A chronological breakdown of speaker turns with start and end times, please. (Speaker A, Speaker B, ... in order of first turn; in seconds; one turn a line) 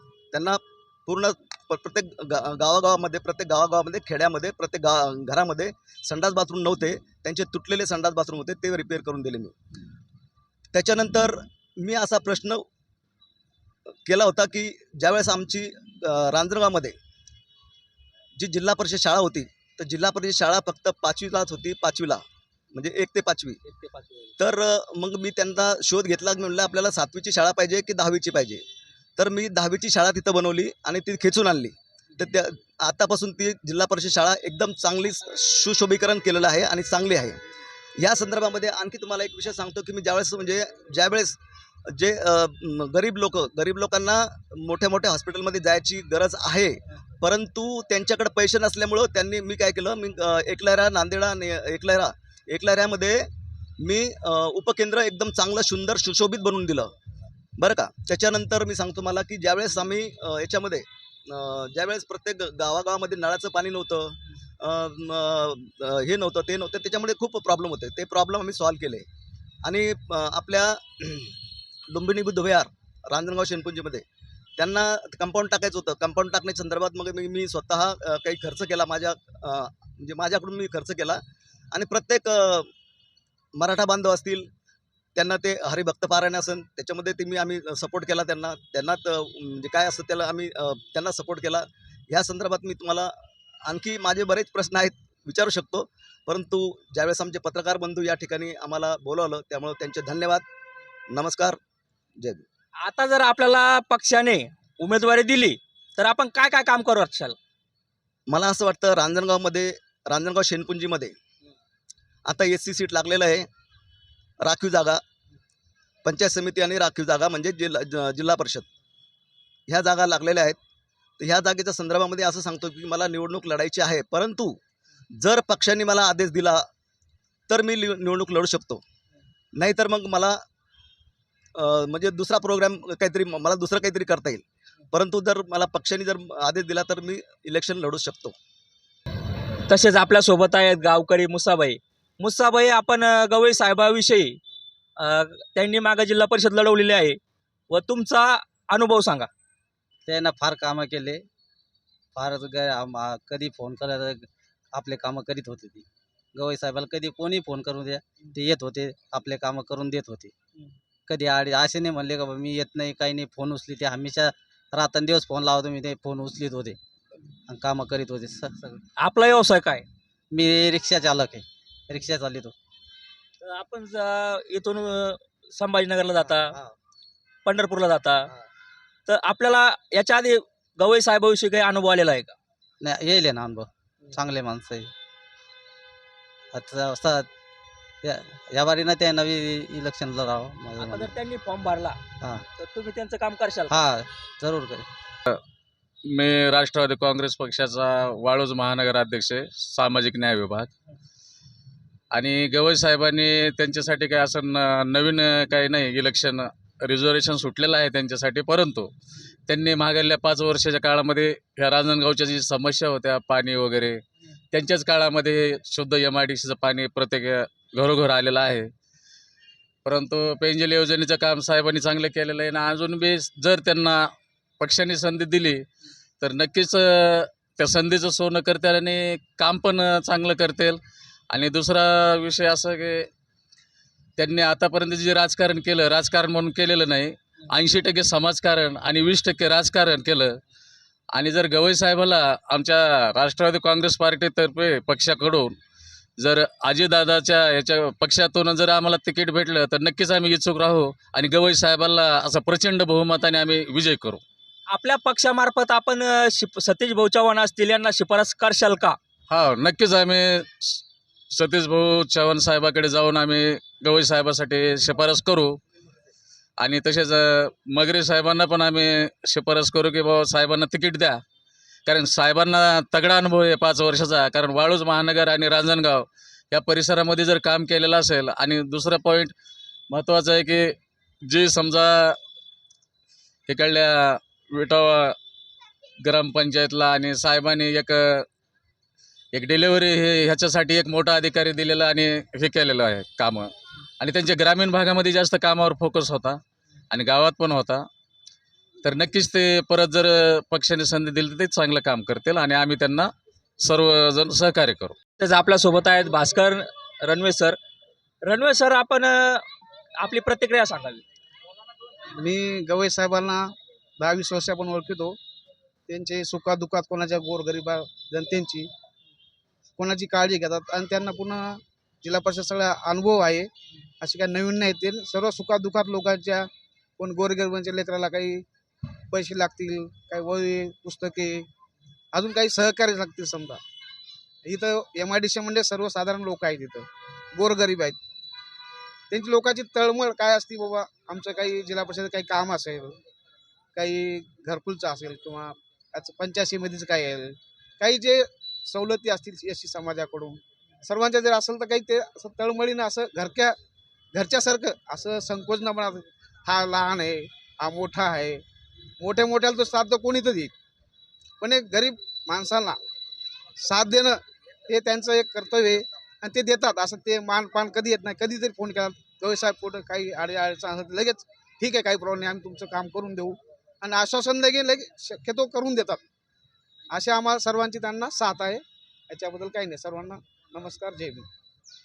Speaker A: 0.3-9.5
Speaker A: 10.7-12.6
Speaker A: 14.1-17.0
Speaker A: 18.4-23.6
Speaker B: 23.6-24.3
Speaker A: 24.4-28.6
Speaker A: 29.2-37.4
Speaker A: 38.0-41.4
Speaker A: 41.9-53.3
Speaker A: 53.8-56.9
Speaker A: 57.6-69.1
Speaker A: 69.6-71.4
Speaker A: 71.9-74.0
Speaker A: 74.6-82.7
Speaker A: 83.5-84.5
Speaker A: 85.2-93.1
Speaker A: 93.7-100.5
Speaker A: 101.1-101.6
Speaker A: 102.2-102.5
Speaker B: 102.8-107.4
Speaker A: 108.3-111.2
Speaker A: 112.3-113.5
Speaker A: 114.4-115.0
Speaker A: 116.0-118.7
Speaker A: 119.7-120.6
Speaker A: 121.2-124.6
Speaker A: 125.1-126.7
Speaker A: 127.5-128.8
Speaker A: 129.6-130.4
Speaker A: 131.6-138.3
Speaker B: 139.7-144.4
Speaker B: 145.0-147.2
Speaker B: 147.7-149.3
Speaker C: 150.1-151.2
Speaker C: 152.2-160.3
Speaker C: 161.1-166.8
Speaker C: 167.5-168.8
Speaker B: 169.0-169.9
Speaker C: 170.3-172.5
Speaker B: 173.4-176.6
Speaker B: 177.4-178.3
Speaker B: 179.1-182.3
Speaker C: 182.8-184.9
Speaker C: 186.5-187.3
Speaker C: 188.0-191.1
Speaker B: 190.8-192.0
Speaker B: 192.6-193.8
Speaker C: 193.7-194.9
Speaker D: 196.1-200.7
Speaker D: 202.1-208.9
Speaker D: 209.5-218.7
Speaker D: 219.8-224.1
Speaker D: 224.6-225.7
Speaker D: 226.2-233.1
Speaker D: 234.2-240.4
Speaker D: 241.1-245.5
Speaker D: 246.2-254.2
Speaker B: 254.7-259.0
Speaker D: 259.3-260.8
Speaker D: 261.3-265.6
Speaker D: 266.6-271.2
Speaker D: 271.9-279.3
Speaker D: 279.9-282.2
Speaker D: 283.5-285.1
Speaker D: 286.0-288.3
Speaker D: 289.3-296.4
Speaker D: 296.9-297.9
Speaker D: 298.8-305.0
Speaker B: 305.2-307.6
Speaker B: 308.2-309.4
Speaker B: 310.0-311.0
Speaker E: 312.2-315.2
Speaker E: 315.9-318.7
Speaker E: 319.8-323.5
Speaker E: 324.0-328.4
Speaker E: 329.1-331.5
Speaker E: 332.1-333.6
Speaker E: 334.4-338.0
Speaker E: 339.1-343.0
Speaker E: 343.8-353.6
Speaker E: 354.1-358.4
Speaker E: 359.0-360.5
Speaker E: 361.4-362.8
Speaker E: 363.6-376.0
Speaker E: 376.9-381.3